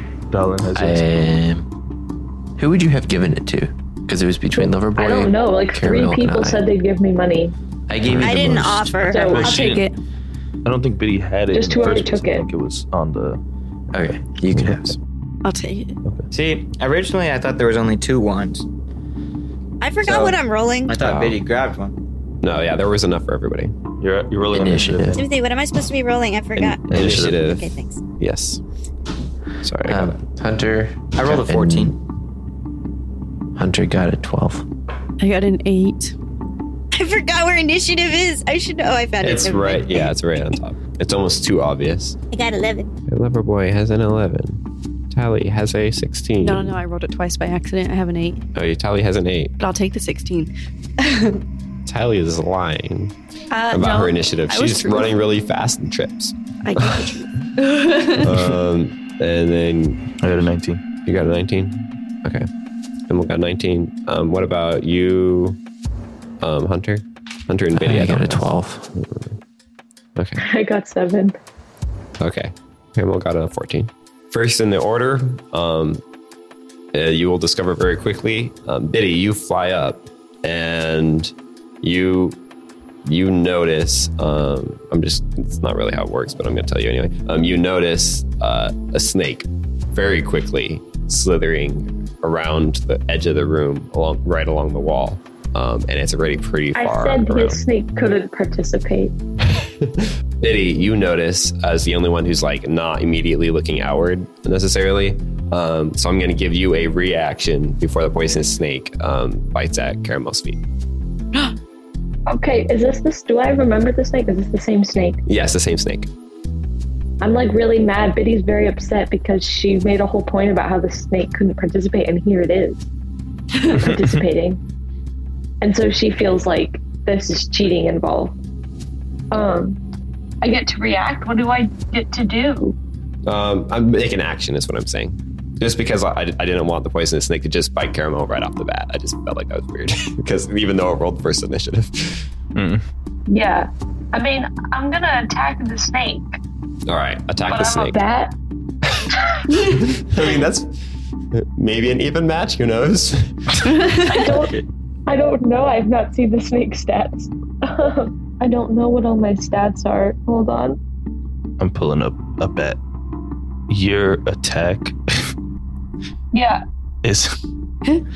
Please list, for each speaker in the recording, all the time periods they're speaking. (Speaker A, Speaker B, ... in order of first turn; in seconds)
Speaker A: 0.3-1.1, 8.1-8.4, 9.3-9.9, 10.6-13.4, 24.0-25.2, 26.9-27.4, 60.2-60.8, 123.7-124.2, 142.6-142.9, 154.2-154.6, 161.6-162.8, 163.7-165.3, 167.0-167.4
Speaker B: 0.7-1.7, 2.6-6.6, 7.9-9.1, 13.9-14.9, 24.5-25.2, 29.8-32.0, 33.6-34.7, 67.7-68.9
Speaker C: 4.5-7.6, 9.1-9.6, 11.5-12.5, 70.4-71.4, 96.8-99.1, 112.3-115.2, 117.2-122.8, 123.7-124.6, 125.6-128.4, 129.3-129.8, 130.4-132.8, 143.3-146.4, 147.5-148.3, 154.0-160.8, 166.3-166.6
Speaker D: 8.2-9.7, 19.8-21.1, 25.1-28.0, 36.9-40.1, 42.3-42.9
Speaker E: 9.3-10.0, 15.4-16.0, 35.2-36.1, 46.4-48.4, 49.6-51.4, 53.5-55.2, 56.6-58.5, 153.7-154.1
Speaker F: 16.3-18.7, 20.0-22.0, 31.1-32.0
Speaker G: 22.4-23.7, 26.6-27.7, 28.2-28.6, 29.6-30.2, 39.2-42.2, 43.1-46.8, 48.5-49.5, 51.9-53.1, 53.7-57.1, 58.2-60.0, 61.0-62.5, 63.1-65.6, 66.4-69.3, 70.2-70.4, 72.2-76.0, 76.9-82.4, 83.0-97.6, 99.6-110.6, 115.3-116.1, 133.3-142.3, 146.9-148.0, 149.6-150.8, 151.3-153.4